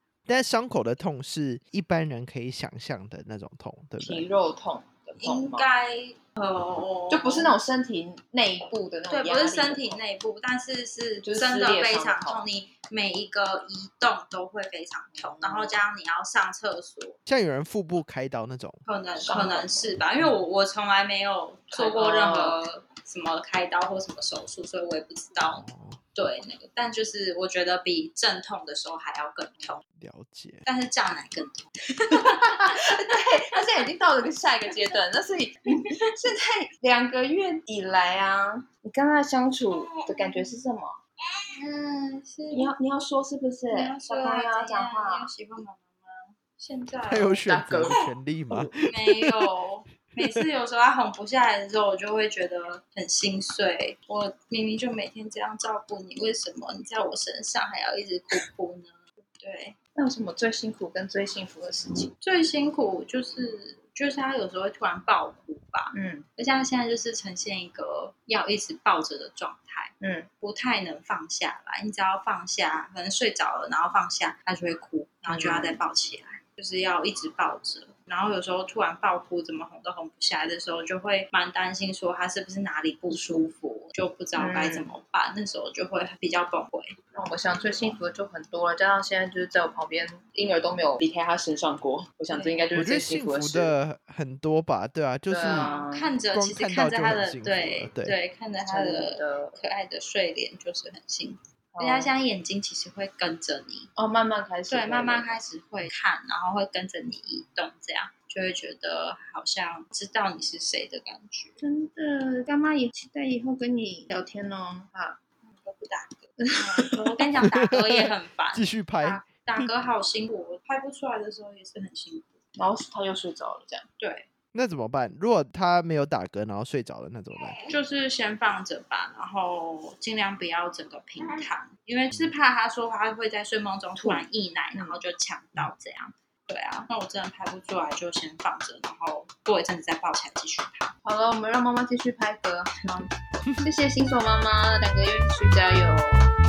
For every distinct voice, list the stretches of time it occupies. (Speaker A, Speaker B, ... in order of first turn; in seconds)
Speaker A: 0.3-4.2, 17.2-18.8, 25.5-26.0, 29.9-30.6, 47.1-49.3, 50.1-50.4, 92.7-95.7, 96.3-98.2, 117.5-119.2, 124.5-127.6
Speaker B: 4.0-5.7, 7.1-10.0, 11.2-12.4, 15.1-15.8, 19.2-20.0, 21.7-22.6, 32.0-41.0, 42.5-45.3, 47.4-48.7, 60.0-62.1, 65.9-66.2, 70.0-70.3, 75.3-75.8, 84.4-84.9, 87.1-93.7, 95.3-96.1, 98.6-99.6, 101.7-102.1, 104.0-105.4, 111.6-115.2, 116.4-117.2, 122.6-123.8, 134.0-135.0, 141.0-146.3
Speaker C: 5.2-7.5, 9.1-17.2, 18.9-29.8, 30.6-33.3, 35.7-36.1, 41.5-42.7, 43.7-48.1, 48.9-59.8, 62.2-86.9, 92.3-92.8, 95.4-103.9, 104.7-111.6, 115.4-122.4, 124.0-124.3, 127.6-140.9